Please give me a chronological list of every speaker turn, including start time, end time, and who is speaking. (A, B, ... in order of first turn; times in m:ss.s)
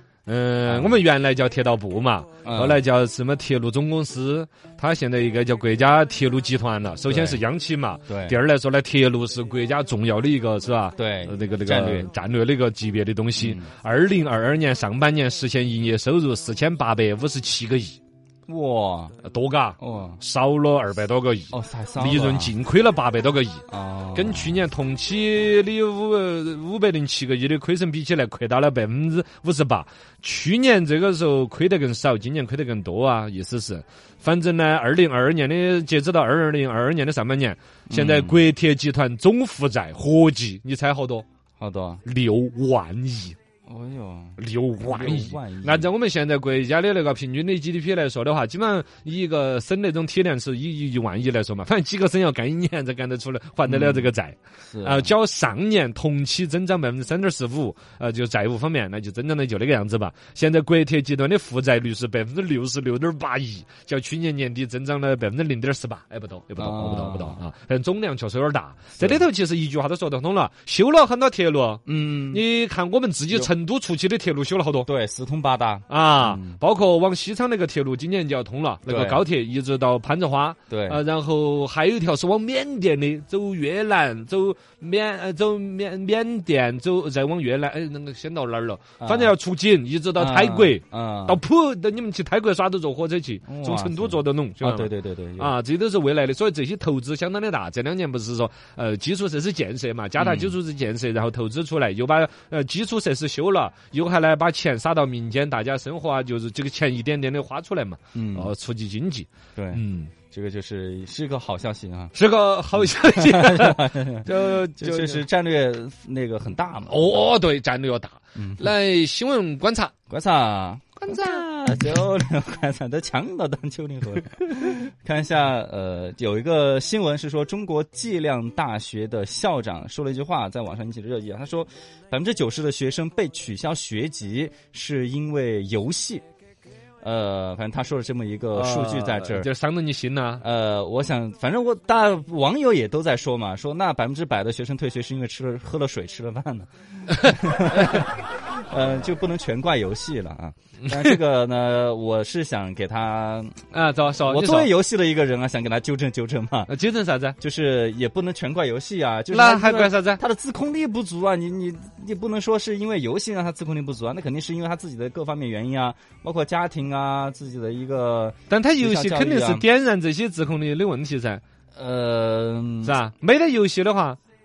0:00.3-0:18.0 A
0:00.7-0:01.0 B
0:02.4-0:02.8 B
0:07.1-0:07.4 B
0:08.1-0:08.4 B
0:11.0-0:12.1 B
0:13.4-0:13.7 B
0:18.5-0:19.1 B
0:19.2-0:41.2 A
0:19.8-0:20.2 B
0:21.5-0:22.5 B
0:23.7-0:24.6 B
0:37.9-0:38.4 B
0:41.6-0:42.0 B
0:42.0-0:43.4 A
0:43.7-0:45.9 B
0:44.4-1:14.9 A
0:53.6-0:54.1 B
0:54.7-0:55.1 B
1:06.6-1:07.4 B
1:09.0-1:09.2 B
1:11.9-1:12.4 B
1:14.9-1:16.6 B
1:15.9-1:50.1 A
1:18.9-1:19.3 B
1:20.7-1:21.0 B
1:29.0-1:29.4 B
1:30.2-1:31.4 B
1:33.5-1:35.6 B
1:40.2-1:40.6 B
1:48.1-1:48.5 B
1:49.6-1:52.1 B
1:52.2-1:55.2 A
1:53.1-1:57.2 B
1:56.9-1:59.9 A
1:58.4-1:58.7 B
2:00.1-2:16.2 B
2:01.0-2:01.4 A
2:17.0-2:19.5 B
2:18.5-2:20.4 A
2:20.4-2:33.6 B
2:27.2-2:28.0 A
2:30.9-2:31.2 A
2:33.7-2:34.7 A
2:34.2-2:36.7 B
2:36.7-2:37.4 A
2:37.4-2:49.6 B
2:39.3-2:40.2 A
2:48.5-2:51.4 A
2:51.8-2:53.0 B
2:52.8-2:54.2 A